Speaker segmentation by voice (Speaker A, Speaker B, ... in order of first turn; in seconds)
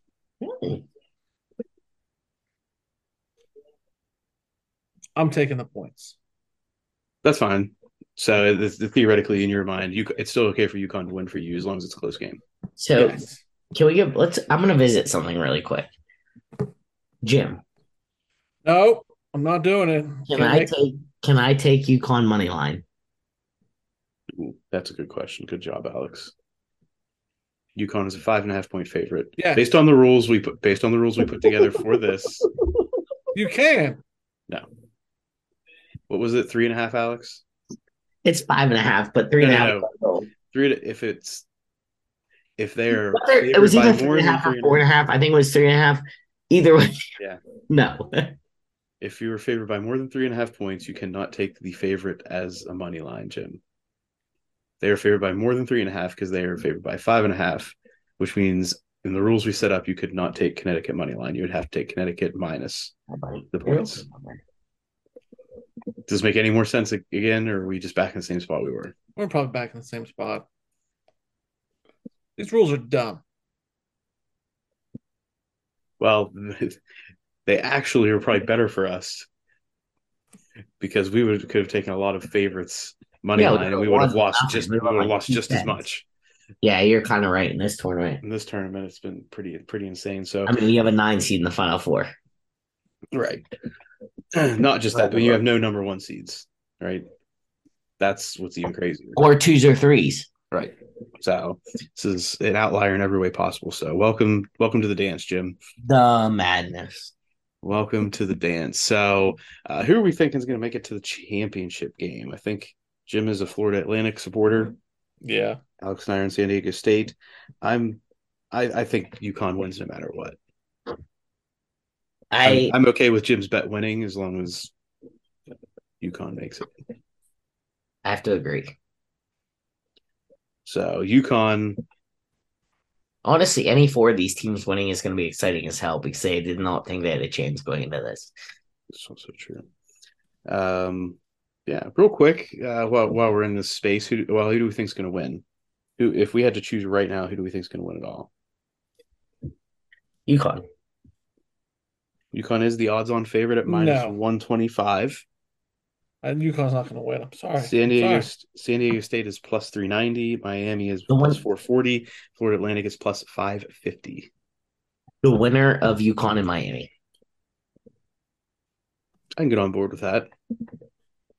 Speaker A: 0.4-0.8, 12.8-13.2, 13.7-15.9, 17.2-17.6, 20.3-22.8, 38.2-40.3, 43.1-47.0, 47.7-48.3, 63.1-64.4, 83.4-85.8, 86.6-88.2, 90.5-92.1, 94.9-95.4, 99.2-100.3, 105.8-107.1, 122.3-122.8, 128.0-128.8, 133.2-138.3, 150.3-150.6, 161.1-161.4, 165.2-166.9
Speaker B: 5.2-6.2, 12.9-13.4, 18.6-20.7, 29.4-29.6, 33.3-34.0, 69.2-70.5, 72.4-73.2, 115.2-115.6, 153.7-154.2, 156.2-158.3
Speaker C: 7.2-12.4, 24.4-26.3, 27.8-32.5, 36.1-37.4, 39.4-39.9, 40.5-41.5, 42.6-44.8, 49.0-53.6, 54.8-62.9, 63.5-64.0, 66.1-69.0, 76.0-76.8, 77.5-79.3, 80.8-86.0, 88.2-90.6, 93.1-93.5, 94.3-97.1, 98.0-99.2, 100.5-105.6, 107.6-114.8, 115.8-118.0, 118.5-120.4, 122.4-124.7, 126.0-126.7, 130.7-131.8, 138.9-139.6, 140.5-145.4, 146.0-148.3, 152.3-155.2, 157.6-164.3, 169.4-170.3